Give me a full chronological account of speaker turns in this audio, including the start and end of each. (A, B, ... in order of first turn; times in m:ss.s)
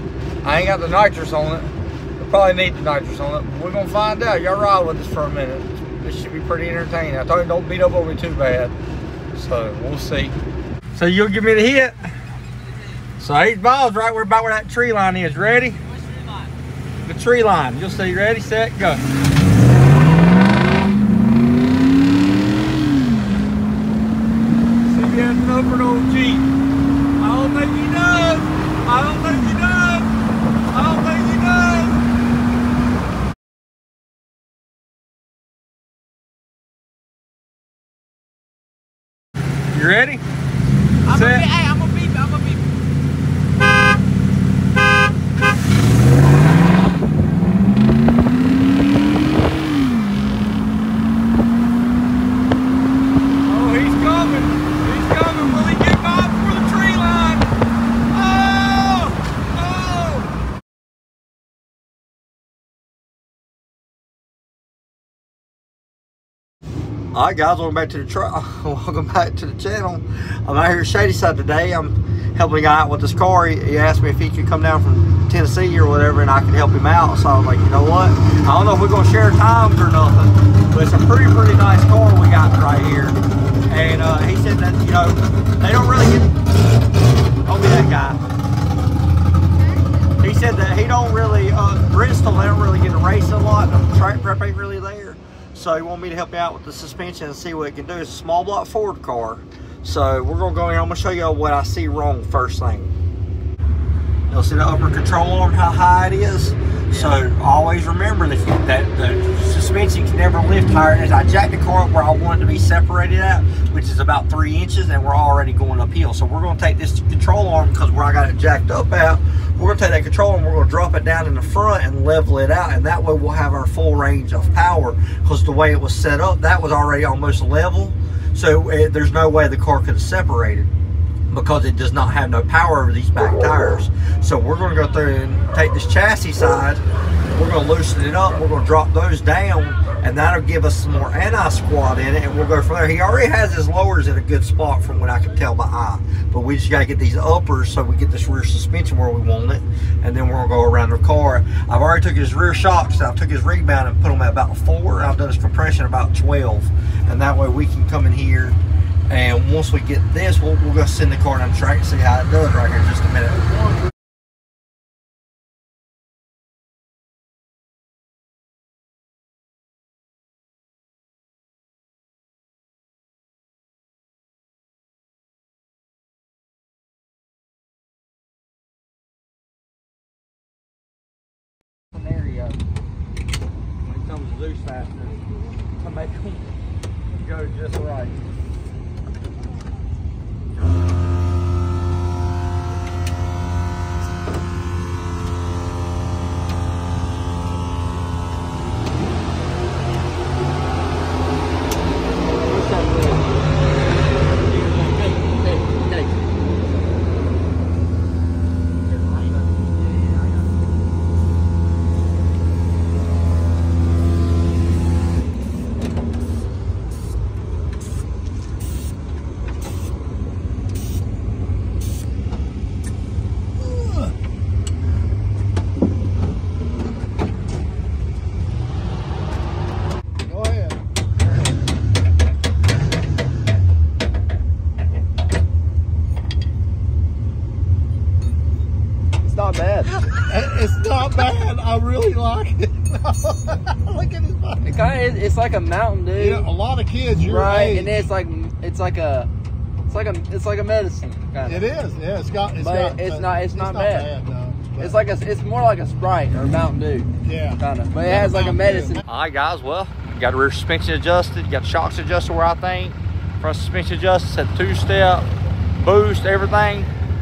0:00.4-0:08.7 A
0:09.3-0:10.4 A
0:10.9-0:12.1 A
0:13.2-0:16.2 A
0:17.0-0:19.0 A
0:24.8-0:26.5 A
0:27.2-0:30.2 A
0:30.7-0:32.1 A
0:39.7-0:40.2 A
0:41.1-0:41.5 A
0:41.1-0:42.6 B
0:53.4-0:57.5 A
0:58.1-1:00.3 A
1:07.1-1:26.3 A
1:27.4-1:28.2 A
1:30.2-1:42.9 A
1:44.3-2:10.7 A
2:11.3-2:43.6 A
3:02.0-3:02.6 A
3:03.8-3:06.5 A
3:07.2-3:08.2 A
3:22.5-3:23.3 A
3:24.5-3:26.2 A
3:50.3-3:50.8 C
3:59.2-4:00.0 B
4:00.1-4:04.6 C
4:04.6-4:06.5 B
4:06.4-4:07.9 C
4:07.2-4:09.3 B
4:09.9-4:11.7 B
4:11.6-4:14.8 C
4:12.6-4:14.1 B
4:14.7-4:19.0 B
4:17.3-4:17.6 C
4:19.0-4:26.9 A